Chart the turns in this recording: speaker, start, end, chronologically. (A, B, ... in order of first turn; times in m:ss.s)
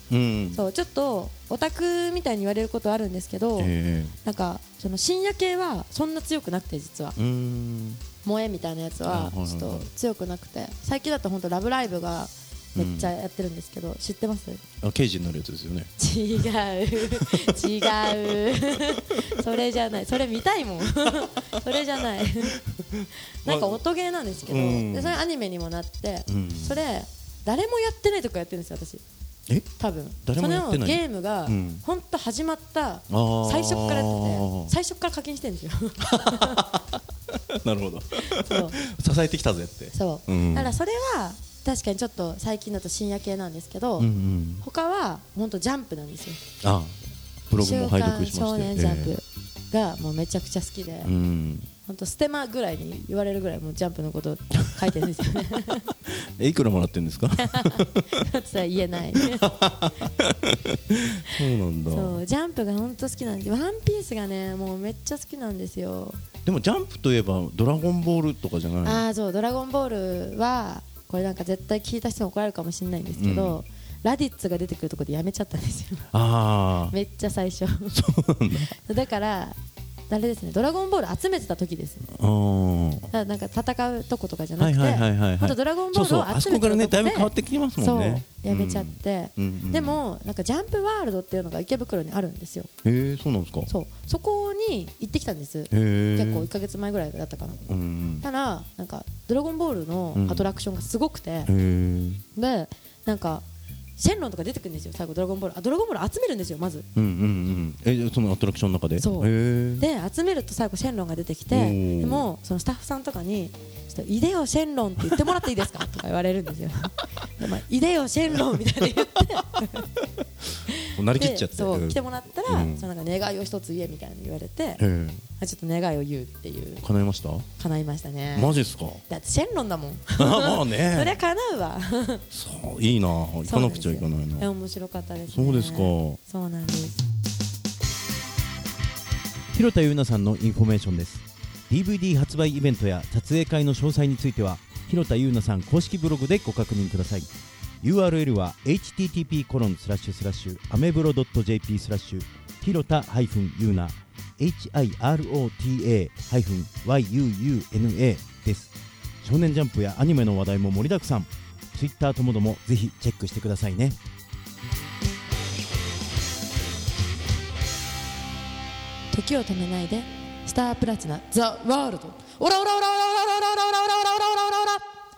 0:00.1-0:00.6 A
0:00.5-0:03.7 B
0:03.6-0:04.2 A
0:04.2-0:07.2 B
0:07.2-0:08.0 A
0:08.2-0:14.6 B
0:09.0-0:09.9 A
0:12.8-0:13.1 A
0:14.8-0:15.9 A
0:16.0-0:22.6 B
0:17.1-0:18.4 A
0:22.7-0:23.8 A
0:23.4-0:29.0 B
0:24.4-0:25.2 A
0:26.3-0:26.8 A
0:29.8-0:36.6 B
0:30.2-0:31.8 A
0:33.1-0:34.7 A
0:36.0-0:40.8 A
0:38.3-0:38.8 B
0:39.9-0:44.1 B
0:44.0-0:44.6 A
0:44.6-0:46.4 B
0:46.6-0:47.0 A
0:47.5-0:49.2 A
0:47.6-0:51.1 B
0:51.0-0:51.7 A
0:51.8-0:55.9 B
0:56.0-0:58.1 A
0:57.4-0:59.5 B
0:59.1-1:02.2 A
1:01.9-1:06.2 B
1:06.4-1:09.0 A
1:08.8-1:16.1 B
1:13.1-1:13.6 A
1:16.1-1:17.0 A
1:16.9-1:17.9 B
1:17.9-1:18.7 A
1:18.6-1:19.6 B
1:20.1-1:22.0 B
1:22.1-1:23.1 A
1:23.1-1:32.7 B
1:24.6-1:30.0 A
1:32.8-1:33.7 A
1:33.7-1:37.6 B
1:35.7-1:36.5 A
1:37.6-1:38.2 A
1:38.2-1:41.5 B
1:40.1-1:40.5 A
1:41.4-1:42.2 A
1:42.4-1:43.4 B
1:44.0-1:46.9 B
1:46.9-1:49.9 A
1:49.0-1:59.9 B
1:51.5-1:52.3 A
2:00.7-2:04.8 B
2:01.0-2:02.9 A
2:04.8-2:05.2 A
2:05.4-2:06.8 B
2:06.8-2:07.4 A
2:07.6-2:12.2 B
2:08.4-2:09.0 A
2:10.2-2:11.2 A
2:12.3-2:14.5 A
2:13.4-2:17.0 B
2:15.3-2:16.2 A
2:19.5-2:27.3 C
2:27.8-2:44.0 C
2:49.1-2:54.8 B